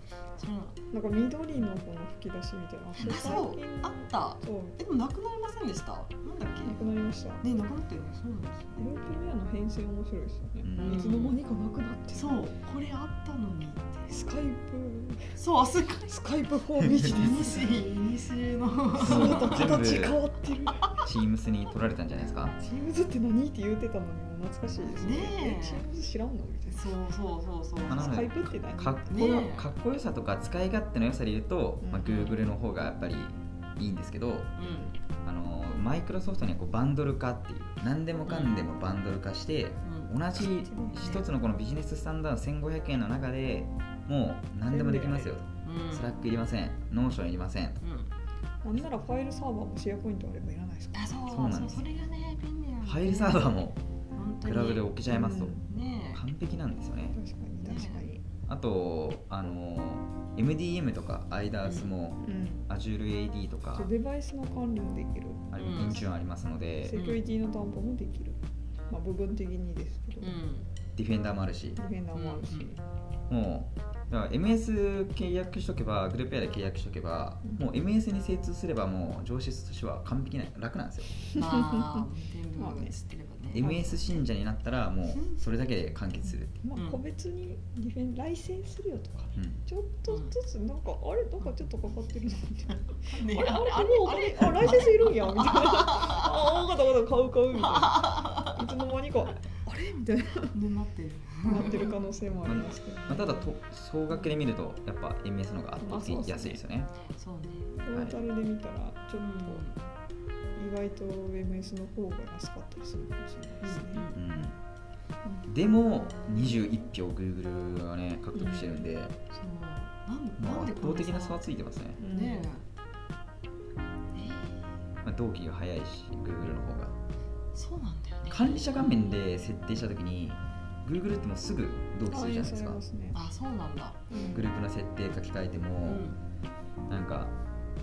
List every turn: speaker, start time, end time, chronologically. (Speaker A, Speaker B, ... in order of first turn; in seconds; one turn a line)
Speaker A: 0.4-0.7
Speaker B: 0.9-4.9
Speaker C: 3.0-3.4
Speaker A: 3.0-6.8
Speaker B: 6.6-7.4
Speaker A: 7.4-8.8
Speaker B: 8.8-12.4
Speaker C: 10.6-11.1
Speaker A: 10.8-11.4
Speaker A: 12.1-14.1
Speaker B: 14.1-15.4
Speaker A: 15.3-16.1
Speaker B: 16.1-17.8
Speaker A: 16.8-19.8
Speaker B: 18.9-21.0
Speaker C: 19.0-20.2
Speaker C: 21.0-22.6
Speaker B: 22.6-26.9
Speaker A: 24.9-25.8
Speaker A: 26.7-28.2
Speaker C: 27.9-34.5
Speaker B: 27.9-29.2
Speaker A: 29.1-29.7
Speaker B: 31.8-32.4
Speaker A: 32.0-32.4
Speaker A: 34.6-35.0
Speaker C: 35.2-47.8
Speaker A: 38.3-38.7
Speaker A: 39.8-40.2
Speaker B: 40.4-41.2
Speaker A: 44.7-46.1
Speaker A: 47.8-48.1
Speaker B: 48.6-51.2
Speaker A: 50.9-53.6
Speaker C: 51.3-51.9
Speaker C: 52.8-53.8
Speaker A: 54.1-54.9
Speaker C: 54.4-55.6
Speaker B: 55.0-55.6
Speaker A: 55.7-56.2
Speaker C: 56.1-57.2
Speaker B: 57.1-58.2
Speaker A: 57.6-58.1
Speaker C: 58.5-63.9
Speaker A: 61.6-61.9
Speaker B: 62.2-62.7
Speaker B: 63.7-65.6
Speaker C: 65.5-67.0
Speaker A: 65.5-66.1
Speaker B: 66.8-68.4
Speaker A: 66.9-67.2
Speaker B: 68.9-70.4
Speaker A: 70.2-70.7
Speaker C: 71.0-71.8
Speaker B: 71.8-72.8
Speaker A: 72.1-72.7
Speaker C: 73.3-81.2
Speaker B: 81.3-81.6
Speaker A: 81.3-84.2
Speaker B: 82.6-82.9
Speaker C: 83.5-86.6
Speaker B: 83.6-83.8
Speaker B: 86.6-100.5
Speaker A: 86.7-87.0
Speaker A: 93.0-96.1
Speaker A: 100.5-101.9
Speaker B: 101.4-103.5
Speaker C: 102.4-106.9
Speaker B: 105.8-106.6
Speaker A: 107.1-107.8
Speaker B: 107.8-109.6
Speaker C: 107.9-108.1
Speaker A: 109.1-109.8
Speaker B: 110.5-114.1
Speaker A: 113.6-114.2
Speaker C: 114.1-114.6
Speaker C: 115.5-119.2
Speaker B: 118.3-118.8
Speaker A: 119.3-121.4
Speaker C: 120.4-122.0
Speaker B: 122.0-122.5
Speaker A: 122.0-122.6
Speaker A: 124.1-124.7
Speaker C: 125.0-126.9
Speaker A: 127.5-129.1
Speaker C: 128.3-132.8
Speaker B: 132.1-133.2
Speaker A: 133.1-134.0
Speaker B: 134.1-134.5
Speaker C: 134.3-136.1
Speaker A: 135.8-136.2
Speaker C: 136.9-137.3